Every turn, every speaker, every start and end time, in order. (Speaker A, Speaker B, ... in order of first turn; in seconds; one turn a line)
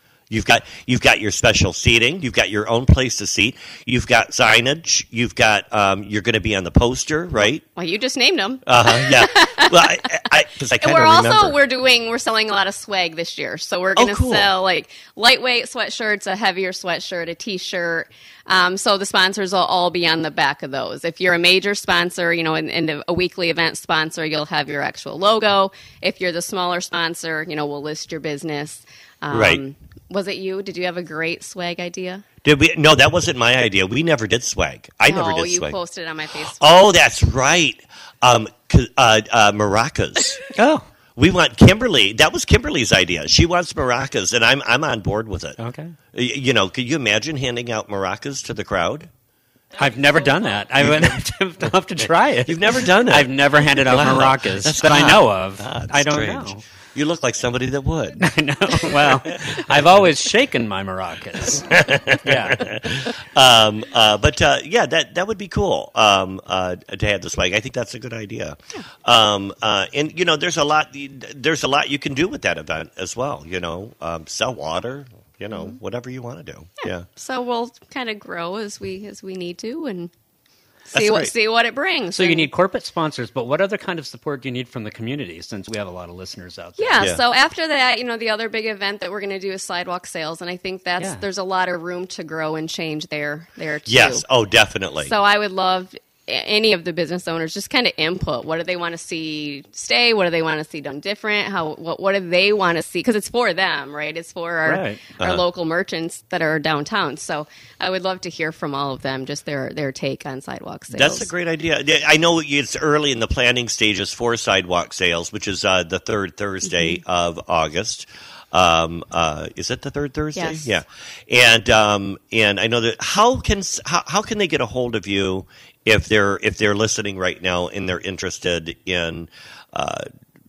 Speaker A: 0.3-7.6
Speaker B: 7.4-10.2
Speaker A: 8.7-11.6
Speaker B: 10.8-32.2
Speaker A: 13.9-14.5
Speaker A: 29.3-29.6
Speaker A: 32.4-35.8
Speaker B: 35.0-36.6
Speaker A: 36.6-40.4
Speaker C: 40.5-40.9
Speaker A: 41.1-45.6
Speaker C: 45.6-45.9
Speaker A: 46.1-49.1
Speaker C: 49.8-56.6
Speaker A: 50.8-51.1
Speaker A: 52.5-60.1
Speaker C: 58.2-62.6
Speaker A: 61.6-77.0
Speaker B: 76.8-80.1
Speaker B: 80.9-82.5
Speaker A: 80.9-81.3
Speaker C: 82.1-87.0
Speaker B: 86.8-94.2
Speaker A: 93.9-95.1
Speaker B: 95.0-111.3
Speaker C: 104.6-105.0
Speaker A: 105.2-105.4
Speaker A: 110.9-130.1
Speaker B: 116.7-117.0
Speaker B: 120.3-120.7